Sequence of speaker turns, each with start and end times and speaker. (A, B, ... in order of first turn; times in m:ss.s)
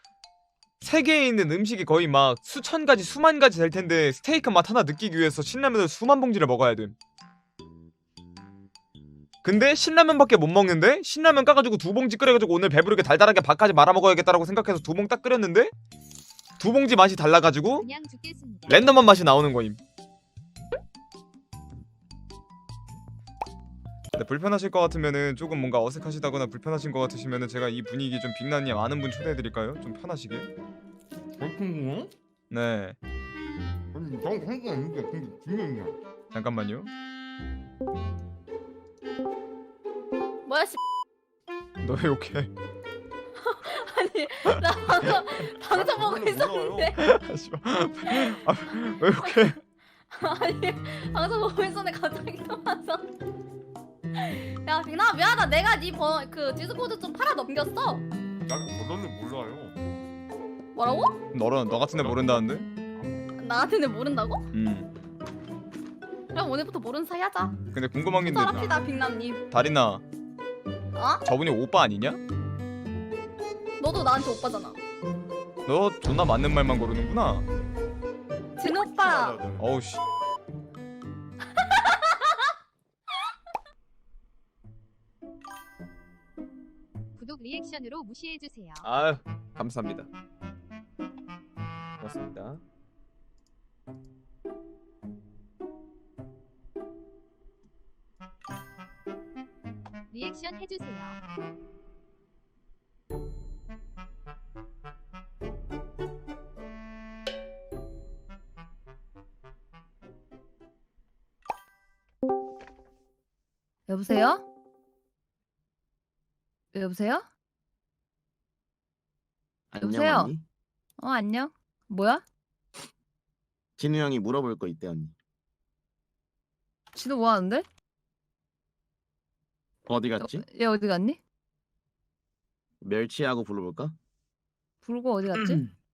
0:00.8-0:07.0 A
0:09.4-0:15.7 A
0:16.6-0:17.9 A
0:17.8-0:18.8 B
0:18.7-0:19.8 A
0:24.1-0:30.5 A
0:31.4-0:32.1 C
0:32.5-0:33.0 A
0:33.9-0:36.0 C
0:36.3-0:36.9 A
0:40.5-0:40.8 D
0:41.8-0:42.5 A
0:43.4-0:47.0 D
0:45.7-0:46.9 C
0:46.5-0:49.6 A
0:48.1-0:49.6 D
0:50.1-0:53.1 D
0:54.1-0:58.1 D
0:58.5-0:59.8 C
1:00.8-1:01.2 D
1:01.3-1:02.7 A
1:01.8-1:03.1 C
1:03.4-1:04.5 D
1:04.5-1:04.9 A
1:06.3-1:07.6 D
1:07.7-1:08.7 A
1:08.2-1:09.4 D
1:09.5-1:10.0 A
1:11.0-1:11.2 D
1:11.2-1:12.2 A
1:13.8-1:14.8 D
1:15.7-1:17.5 A
1:18.6-1:19.4 D
1:19.0-1:19.6 C
1:19.6-1:20.0 A
1:27.2-1:28.9 B
1:28.8-1:30.1 A
1:32.0-1:32.6 A
1:40.1-1:41.2 B
1:53.9-1:54.4 E
1:56.7-1:57.3 E
1:59.7-2:00.4 F
1:59.8-2:00.3 E
2:01.0-2:02.2 E
2:03.8-2:05.1 F
2:06.9-2:07.7 E
2:09.9-2:10.4 F
2:10.2-2:11.2 E
2:12.8-2:14.0 F
2:14.8-2:15.6 E